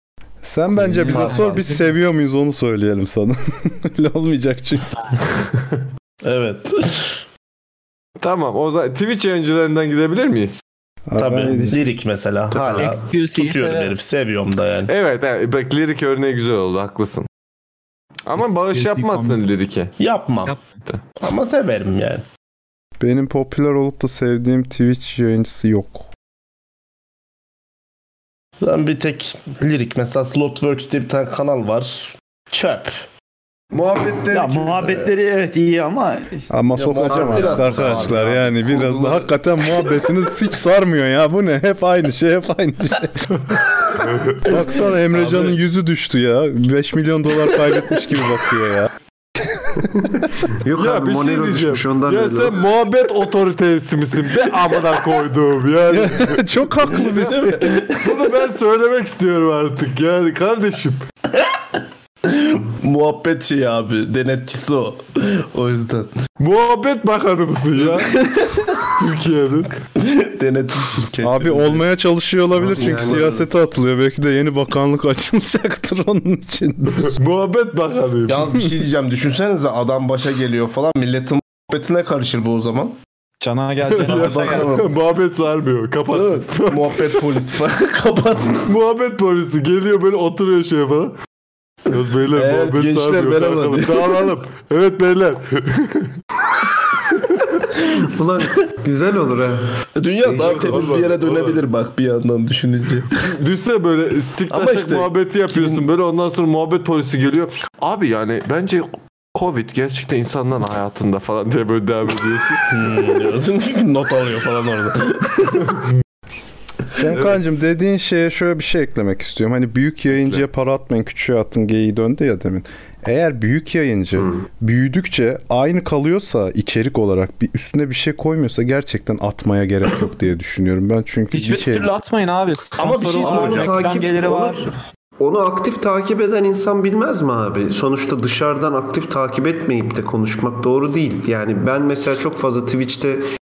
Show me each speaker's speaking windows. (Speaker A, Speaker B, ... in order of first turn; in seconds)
Speaker A: 0.4-4.9, 11.1-11.8, 23.0-26.1, 36.5-43.3, 44.5-48.9, 55.9-57.8, 71.2-77.1, 117.0-131.9
Speaker B: 0.7-1.9, 12.8-13.9, 18.7-19.4, 83.4-84.7, 131.3-134.6
Speaker C: 1.1-1.6, 6.2-7.2, 11.2-14.9, 20.0-20.5, 21.2-22.2, 28.6-33.0, 36.7-39.2, 44.5-45.6, 57.0-58.3, 62.2-66.1, 67.8-68.8, 70.0-71.8, 72.7-73.4, 78.3-83.0, 84.0-84.9, 86.1-88.6, 92.3-94.3, 100.0-103.2, 104.5-105.8, 112.7-115.7, 132.8-133.9
Speaker D: 8.2-10.6, 14.9-17.3, 18.2-19.9, 33.7-34.7, 44.0-44.4, 50.7-56.4, 58.0-61.0, 66.4-68.1, 68.9-69.8, 76.9-78.5, 84.0-87.2, 88.6-91.1, 91.9-96.1, 100.2-101.6, 103.2-113.0, 117.1-117.4, 120.1-120.4
Speaker E: 34.3-36.5
Speaker F: 37.1-38.0, 49.9-52.6, 72.6-73.5, 97.9-99.7, 100.5-100.8, 133.2-134.6, 135.2-143.2